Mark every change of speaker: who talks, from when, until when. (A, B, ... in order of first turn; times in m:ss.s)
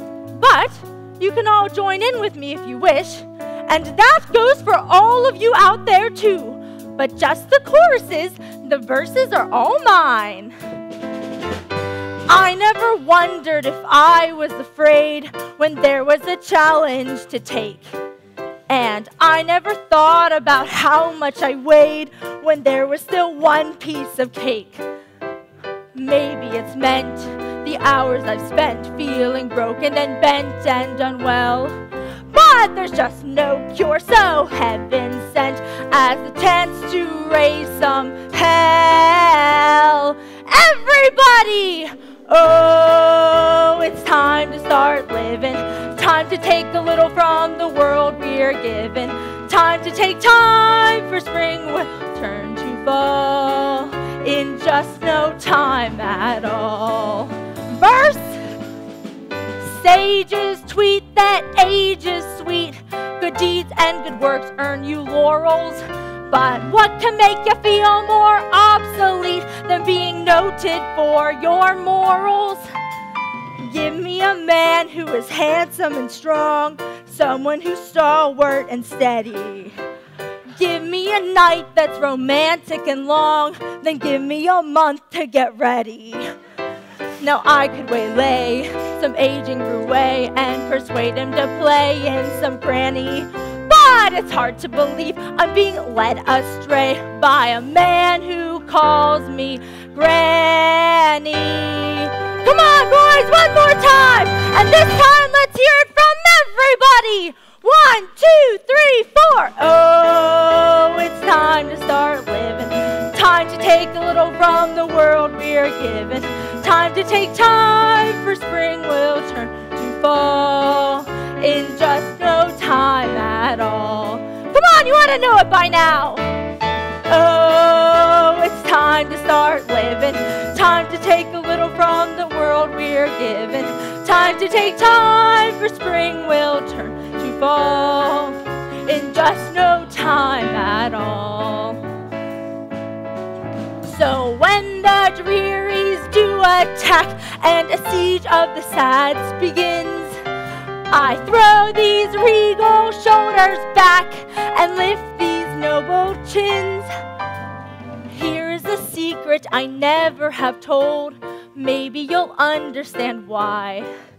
0:00.4-0:10.5 A
0:12.3-0:17.9 A
0:18.7-0:24.8 A
0:25.9-0:31.8 A
0:32.3-0:58.4 A
0:59.6-1:12.6 A
1:13.6-1:19.8 A
1:20.5-1:26.3 A
1:27.2-2:06.3 A
2:07.1-2:21.8 A
2:23.8-2:30.2 A
2:30.9-2:36.9 A
2:38.1-2:43.9 A